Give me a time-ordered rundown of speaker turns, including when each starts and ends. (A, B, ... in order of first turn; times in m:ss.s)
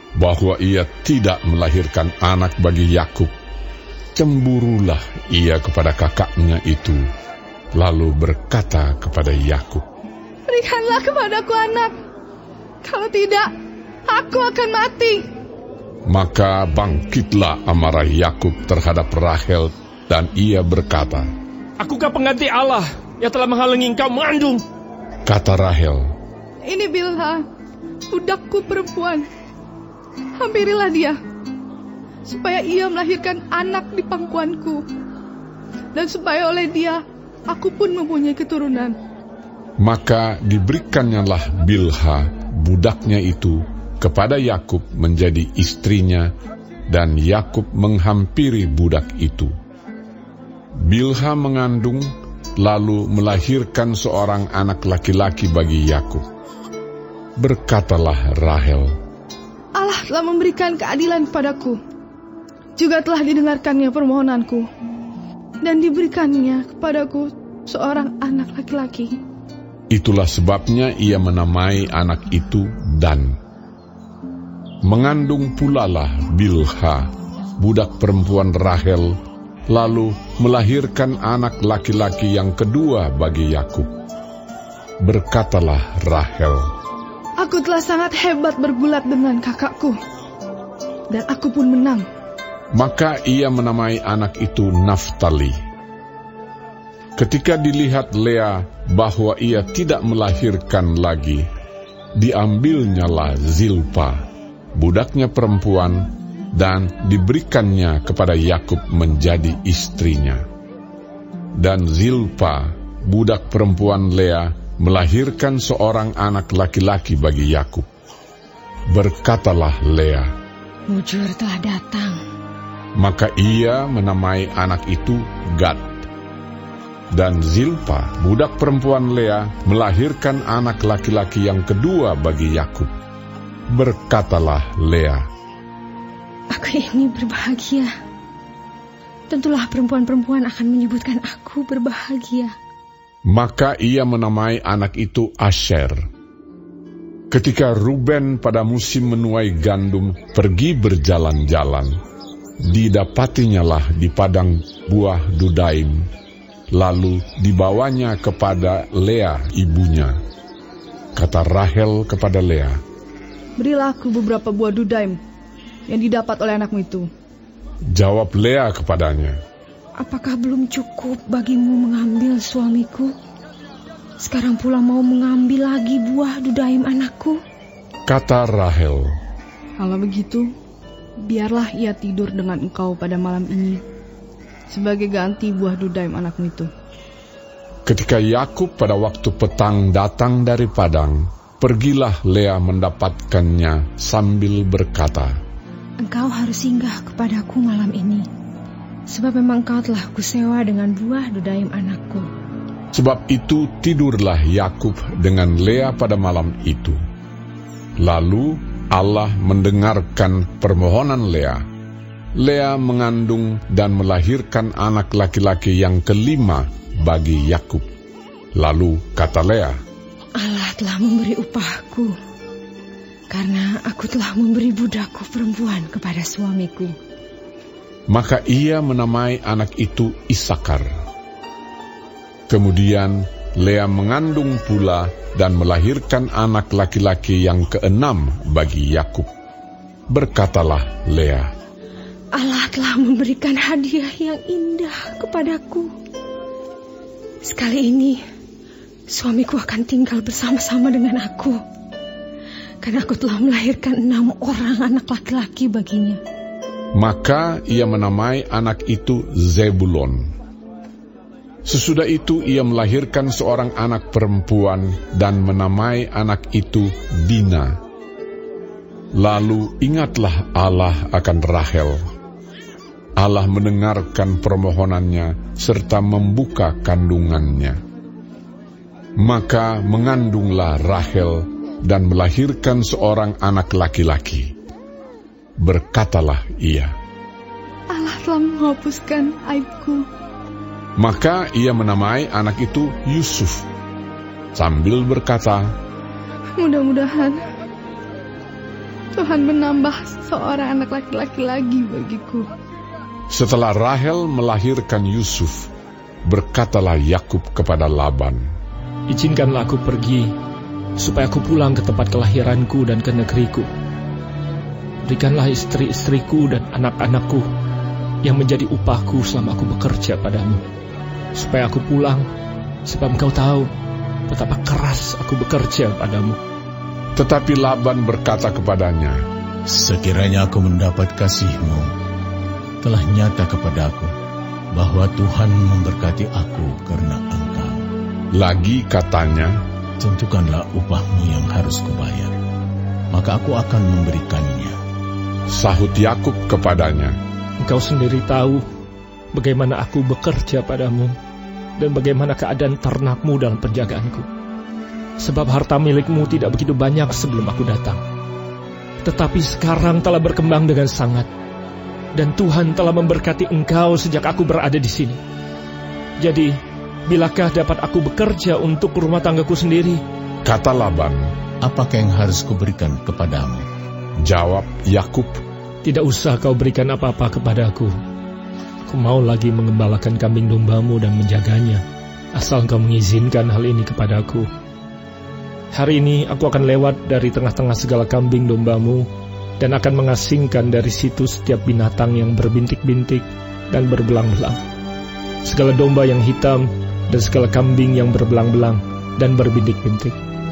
0:00.2-0:03.3 A
0:04.2-0:07.0 A
0:07.8-0:09.8 A
0:10.5-0:12.0 B
0:12.8-0:13.5 B
0:14.1-0:15.3 B
0:16.1-0:21.3 A
0:21.8-0:24.6 C
0:25.2-0:26.1 A
0:26.6-0:27.4 B
0:28.1-0:29.3 B
0:30.4-0:31.2 B
0:32.2-0:34.9 B
0:35.9-0:39.0 B
0:39.8-0:46.3 A
0:46.9-0:49.5 A
0:50.8-0:56.2 A
0:57.4-0:58.9 A
0:59.7-1:01.8 B
1:02.8-1:04.7 B
1:05.6-1:09.2 B
1:09.9-1:13.4 A
1:14.8-1:17.1 A
1:17.6-1:19.2 A
1:19.7-1:23.9 A
1:25.0-1:26.6 A
1:27.4-1:30.0 B
1:31.1-1:32.0 B
1:32.8-1:35.6 A
1:37.2-1:41.4 A
1:42.2-1:44.2 A
1:44.8-1:50.4 A
1:51.6-1:57.9 A
1:58.9-2:00.3 A
2:00.9-2:02.2 D
2:03.0-2:06.0 A
2:07.1-2:12.9 A
2:13.7-2:15.2 A
2:16.5-2:17.9 D
2:19.3-2:22.5 D
2:23.3-2:26.0 A
2:27.3-2:31.9 A
2:32.6-2:36.0 A
2:36.7-2:40.2 A
2:41.2-2:42.8 A
2:43.6-2:45.2 B
2:45.9-2:47.1 B
2:47.9-2:49.4 A
2:50.0-2:53.1 D
2:54.2-2:57.4 D
2:58.1-2:59.1 A
2:59.8-3:00.5 B
3:01.2-3:03.8 B
3:04.7-3:06.7 B
3:07.9-3:15.3 A
3:16.0-3:18.3 D
3:19.1-3:22.3 D
3:22.9-3:27.0 A
3:28.0-3:31.6 A
3:32.4-3:37.9 A
3:38.6-3:39.8 A
3:40.4-3:42.1 D
3:43.3-3:46.9 D
3:48.1-3:50.9 A
3:52.5-3:59.3 A
4:00.1-4:01.5 A
4:02.3-4:05.9 D
4:07.4-4:08.2 D
4:09.1-4:11.6 D
4:12.8-4:16.2 D
4:16.9-4:20.2 A
4:21.6-4:27.7 A
4:29.2-4:32.0 A
4:33.2-4:37.8 A
4:39.2-4:44.5 A
4:45.6-4:46.9 A
4:47.9-4:50.0 B
4:51.0-4:53.7 A
4:54.6-4:55.7 A
4:56.6-4:57.4 B
4:59.2-5:02.5 B
5:03.3-5:05.7 A
5:06.3-5:08.4 A
5:09.1-5:10.3 C
5:11.0-5:13.7 C
5:15.0-5:17.5 C
5:18.2-5:20.6 C
5:21.4-5:22.3 C
5:22.9-5:23.7 C
5:24.3-5:26.4 C
5:27.2-5:29.2 A
5:29.7-5:31.9 E
5:32.8-5:34.1 E
5:34.7-5:37.8 E
5:38.3-5:39.6 A
5:40.0-5:42.4 E
5:43.1-5:44.8 E
5:45.5-5:47.1 A
5:47.6-5:48.6 C
5:49.3-5:51.2 C
5:51.8-5:54.3 C
5:55.2-5:58.0 C
5:59.0-6:01.3 C
6:02.2-6:05.2 C
6:06.2-6:06.5 C
6:07.1-6:10.0 C
6:10.4-6:11.3 A
6:11.6-6:13.6 E
6:14.2-6:15.3 A
6:15.8-6:17.9 C
6:18.9-6:21.8 C
6:22.4-6:24.5 C
6:25.7-6:29.1 C
6:29.6-6:34.6 C
6:35.4-6:40.2 C